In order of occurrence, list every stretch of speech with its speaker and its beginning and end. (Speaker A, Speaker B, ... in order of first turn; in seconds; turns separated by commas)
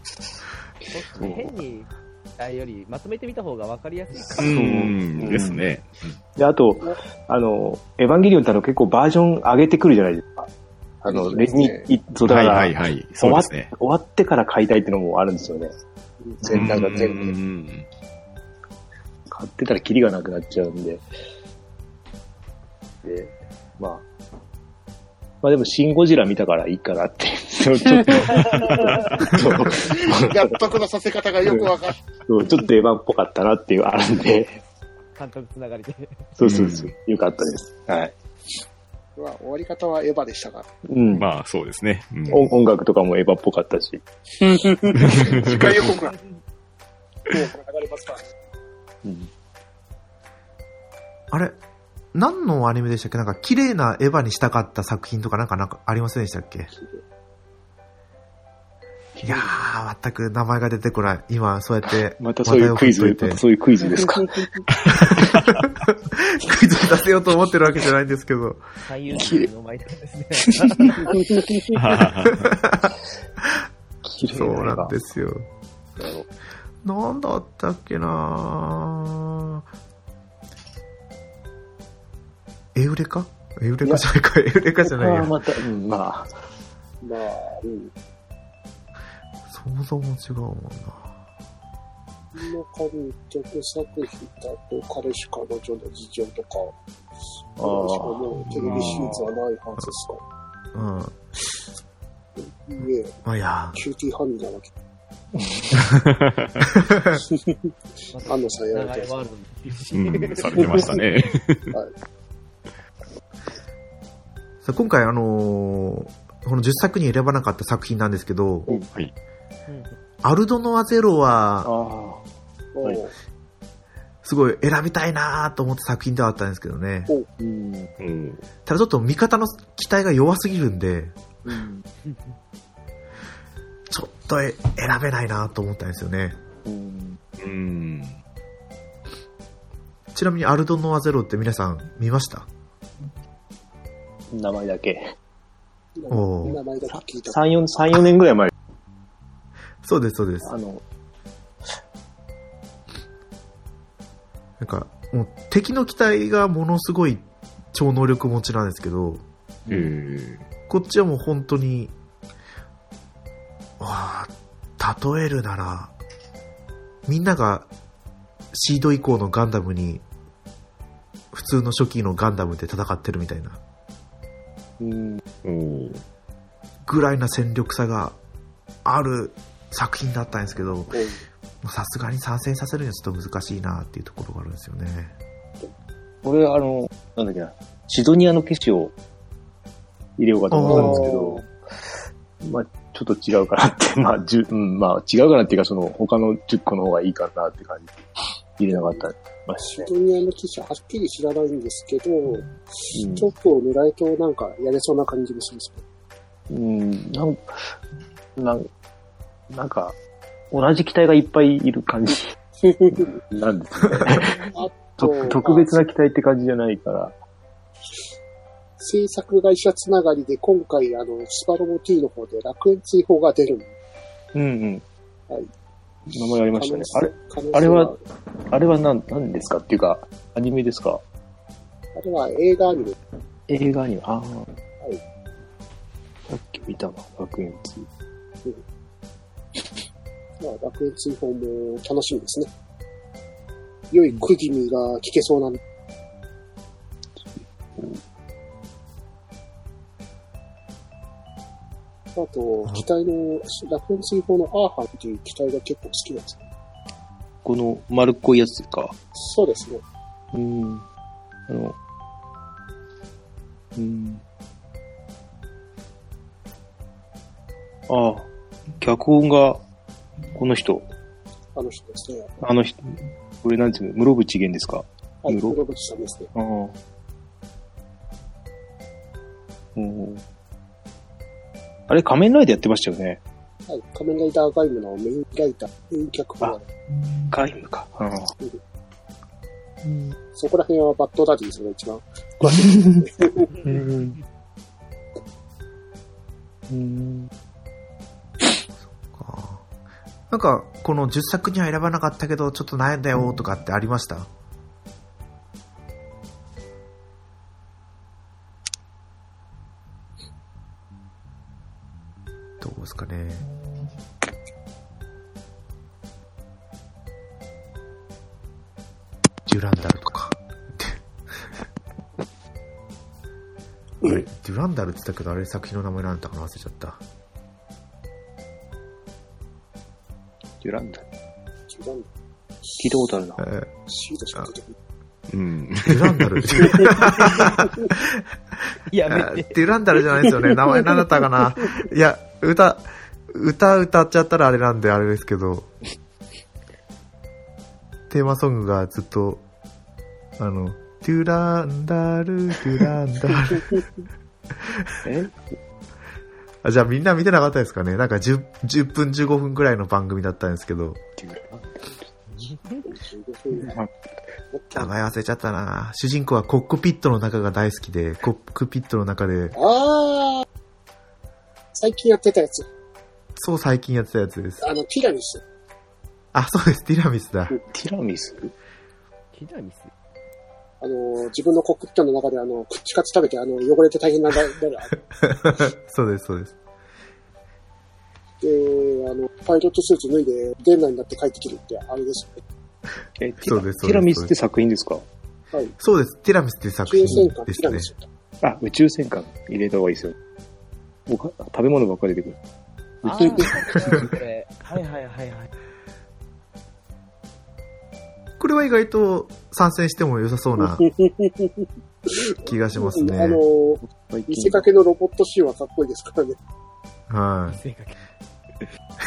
Speaker A: 0.9-4.5, Speaker B: 1.1-1.5, Speaker B: 4.3-5.6, Speaker C: 4.4-6.2, Speaker B: 6.3-10.5, Speaker B: 11.0-15.7, Speaker D: 11.1-11.9, Speaker C: 12.2-13.7, Speaker D: 16.2-17.3, Speaker B: 16.4-17.3, Speaker C: 16.5-17.9, Speaker B: 19.3-21.1, Speaker B: 23.0-24.1, Speaker B: 25.4-30.6, Speaker D: 29.2-32.0, Speaker B: 31.4-31.7, Speaker B: 32.2-34.6, Speaker A: 35.1-36.3, Speaker B: 36.4-38.1, Speaker C: 36.4-36.9, Speaker D: 39.1-40.7, Speaker B: 40.9-41.3, Speaker C: 41.1-42.5, Speaker B: 42.3-44.0, Speaker D: 44.4-46.1, Speaker C: 45.0-45.7, Speaker B: 45.1-45.9, Speaker D: 47.3-48.3, Speaker B: 49.0-49.3, Speaker E: 51.3-51.5, Speaker E: 52.1-56.7, Speaker E: 59.2-63.4, Speaker B: 62.2-64.5, Speaker D: 63.8-64.5, Speaker C: 64.7-65.5, Speaker E: 64.9-68.6, Speaker A: 68.8-71.1, Speaker B: 69.1-69.5, Speaker B: 70.4-71.1, Speaker D: 71.2-71.7, Speaker C: 71.7-72.4, Speaker E: 72.4-72.9, Speaker B: 74.0-75.0, Speaker E: 74.3-75.5, Speaker A: 76.0-76.2, Speaker E: 76.8-79.7, Speaker E: 82.7-85.3, Speaker B: 84.8-86.4, Speaker D: 87.0-87.9, Speaker E: 89.5-91.1, Speaker D: 92.3-96.8, Speaker B: 97.6-99.3, Speaker D: 97.6-100.2, Speaker C: 98.6-99.1, Speaker E: 100.7-101.2, Speaker D: 102.4-103.1, Speaker E: 103.2-103.8, Speaker D: 103.7-104.7, Speaker B: 105.3-105.8, Speaker C: 105.7-106.7, Speaker E: 106.8-107.2, Speaker D: 107.1-107.6, Speaker A: 108.1-111.0, Speaker D: 108.2-109.1, Speaker C: 109.9-111.7, Speaker D: 110.6-110.9, Speaker E: 114.6-118.7, Speaker A: 119.7-119.9, Speaker E: 120.2-121.7, Speaker B: 121.6-122.2, Speaker D: 122.7-123.1, Speaker E: 124.2-127.1, Speaker B: 127.4-127.9, Speaker C: 128.0-128.4, Speaker E: 128.7-131.1, Speaker B: 131.4-131.8, Speaker A: 132.0-132.3, Speaker E: 133.9-136.4, Speaker B: 136.6-137.2, Speaker C: 137.4-138.2, Speaker E: 140.1-142.5, Speaker B: 144.3-145.0, Speaker D: 145.9-147.4, Speaker E: 146.1-146.6, Speaker B: 146.9-148.5, Speaker E: 149.8-150.5, Speaker B: 150.4-150.8, Speaker E: 154.6-159.2, Speaker C: 159.7-160.4, Speaker E: 160.7-161.9, Speaker E: 163.8-165.9, Speaker E: 167.1-167.7, Speaker E: 168.5-170.0, Speaker E: 171.3-173.6, Speaker B: 174.8-175.2, Speaker C: 175.4-176.0, Speaker E: 176.8-178.2, Speaker E: 178.8-181.0, Speaker D: 180.9-181.2, Speaker E: 181.6-185.1, Speaker B: 186.2-188.9, Speaker B: 190.2-191.4, Speaker E: 190.5-191.1, Speaker D: 190.6-191.4, Speaker B: 192.4-197.9, Speaker B: 198.6-199.9, Speaker D: 198.7-199.1, Speaker D: 199.6-205.8, Speaker B: 202.9-203.3, Speaker B: 206.5-207.7, Speaker B: 208.3-208.7, Speaker B: 209.5-209.9, Speaker B: 210.5-212.3, Speaker D: 212.6-213.1, Speaker B: 212.9-214.4, Speaker D: 214.5-215.8, Speaker B: 215.0-217.2, Speaker D: 218.8-223.7, Speaker B: 224.3-224.8, Speaker B: 226.1-227.9, Speaker D: 226.5-228.0, Speaker B: 228.5-231.0, Speaker D: 231.9-233.0, Speaker B: 233.5-234.5, Speaker B: 236.3-237.9, Speaker D: 240.4-242.5, Speaker D: 243.9-245.6, Speaker D: 252.1-256.4, Speaker B: 257.4-258.9, Speaker D: 259.1-259.8, Speaker B: 260.3-260.8, Speaker B: 261.5-261.8, Speaker B: 263.8-264.2, Speaker B: 267.9-269.6, Speaker B: 270.3-270.9, Speaker D: 271.5-272.3, Speaker B: 272.4-275.6, Speaker D: 275.2-276.3, Speaker B: 276.3-276.7, Speaker B: 279.8-280.2, Speaker B: 281.9-283.2, Speaker D: 283.7-286.6, Speaker B: 287.2-288.3, Speaker B: 289.8-290.1, Speaker D: 290.3-293.7, Speaker B: 292.4-294.2, Speaker B: 296.7-297.3, Speaker E: 298.8-299.6, Speaker E: 300.3-304.3, Speaker E: 312.6-313.4, Speaker E: 319.4-321.5, Speaker E: 324.0-327.0, Speaker B: 330.6-331.1, Speaker D: 331.7-332.1, Speaker D: 332.7-332.9, Speaker B: 332.8-333.4, Speaker E: 333.4-333.7, Speaker D: 333.9-334.7, Speaker C: 335.3-336.8, Speaker E: 335.9-338.2, Speaker D: 336.6-336.9, Speaker A: 338.9-339.6, Speaker E: 339.1-345.7, Speaker E: 348.1-349.4, Speaker E: 350.4-353.8, Speaker E: 354.7-354.9, Speaker B: 355.0-355.5, Speaker E: 356.6-361.0, Speaker B: 361.2-361.9, Speaker A: 362.3-362.9, Speaker D: 362.9-363.8, Speaker B: 363.6-363.9, Speaker D: 364.5-364.8, Speaker E: 364.7-369.6, Speaker D: 369.5-370.4, Speaker D: 371.7-372.7, Speaker E: 373.4-374.6, Speaker D: 374.6-375.4, Speaker E: 376.3-377.6, Speaker B: 377.7-378.5, Speaker A: 379.3-379.9, Speaker D: 380.8-384.9, Speaker E: 385.1-386.5, Speaker D: 388.4-392.4, Speaker B: 393.2-395.0, Speaker E: 393.4-394.3, Speaker E: 395.8-397.9, Speaker D: 396.9-398.1, Speaker B: 397.1-397.3, Speaker B: 398.4-400.1, Speaker B: 401.1-402.4, Speaker B: 403.0-404.1, Speaker A: 403.0-405.5, Speaker E: 408.4-410.8, Speaker D: 410.6-416.4, Speaker E: 412.4-413.4, Speaker B: 413.9-414.7, Speaker E: 417.1-417.6, Speaker A: 417.5-417.9